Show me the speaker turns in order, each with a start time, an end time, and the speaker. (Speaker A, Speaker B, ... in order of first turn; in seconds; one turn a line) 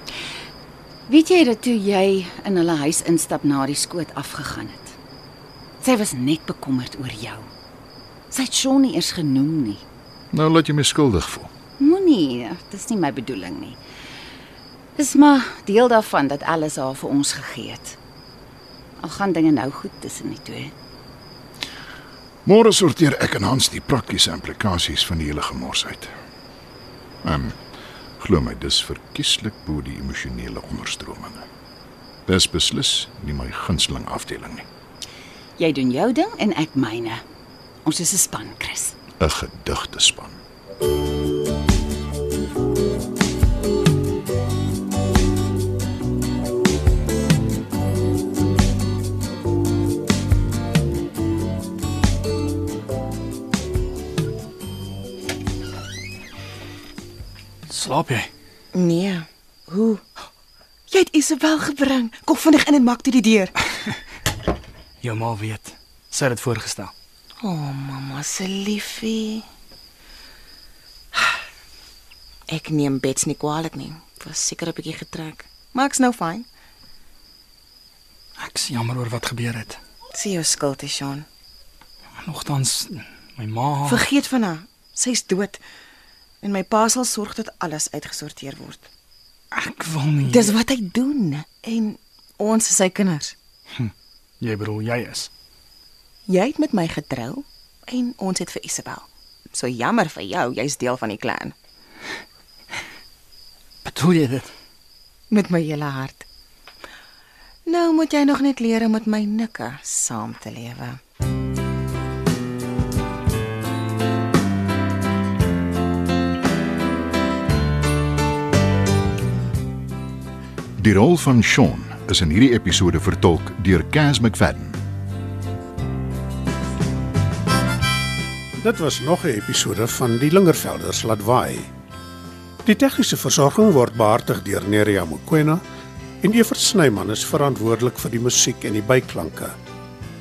Speaker A: 1.1-5.0
Speaker A: 5.8-7.5
Speaker A: 8.3-9.8
Speaker B: 10.3-11.5
Speaker A: 11.8-13.8
Speaker A: 15.0-18.0
Speaker A: 19.0-20.7
Speaker B: 22.4-26.1
Speaker B: 27.2-27.6
Speaker B: 28.2-31.4
Speaker B: 32.3-34.7
Speaker A: 35.6-37.2
Speaker A: 37.9-38.9
Speaker B: 39.2-40.4
Speaker C: 57.7-58.3
Speaker D: 58.7-60.1
Speaker D: 60.9-63.5
Speaker C: 65.0-66.9
Speaker D: 67.4-69.5
Speaker D: 72.5-76.5
Speaker C: 78.4-79.8
Speaker D: 80.1-81.3
Speaker C: 82.2-84.0
Speaker D: 83.8-85.6
Speaker D: 86.4-88.9
Speaker C: 89.5-90.6
Speaker D: 90.2-93.3
Speaker C: 93.7-95.3
Speaker D: 96.3-101.5
Speaker C: 103.8-104.5
Speaker D: 105.3-106.3
Speaker D: 107.7-111.0
Speaker B: 120.8-124.8
Speaker E: 128.6-131.7
Speaker E: 132.7-135.6
Speaker E: 136.2-139.6